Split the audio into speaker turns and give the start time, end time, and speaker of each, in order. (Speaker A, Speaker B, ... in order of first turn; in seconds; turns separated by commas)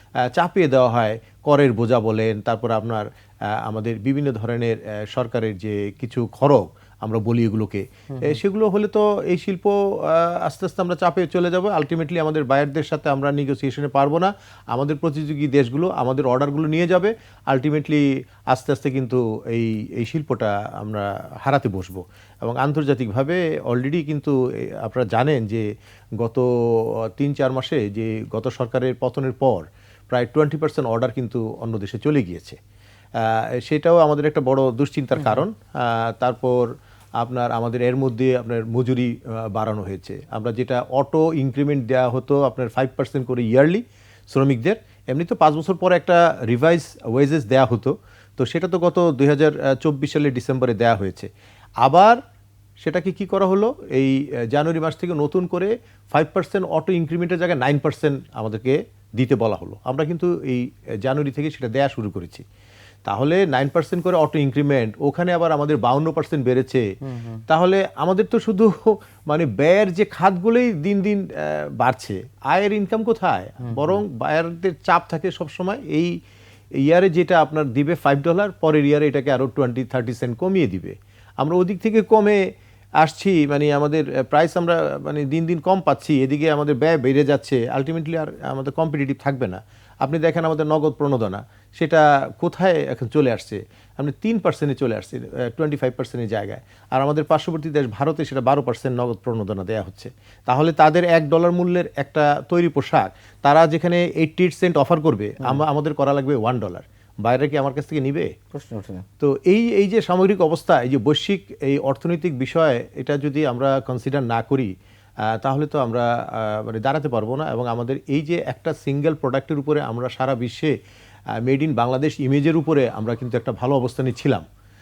Speaker A: 0.3-3.1, Speaker A: 3.6-25.7, Speaker B: 8.1-8.4, Speaker A: 26.2-26.5, Speaker A: 27.2-32.6, Speaker A: 33.2-36.6, Speaker B: 35.1-35.5, Speaker A: 37.2-51.3, Speaker A: 51.8-52.2, Speaker A: 52.8-62.5, Speaker A: 63.1-66.8, Speaker B: 67.0-67.4, Speaker A: 67.5-76.1, Speaker B: 73.6-74.0, Speaker A: 76.8-82.4, Speaker A: 83.0-108.3, Speaker B: 108.5-109.0, Speaker A: 109.2-114.7, Speaker A: 115.3-120.7, Speaker A: 121.4-124.4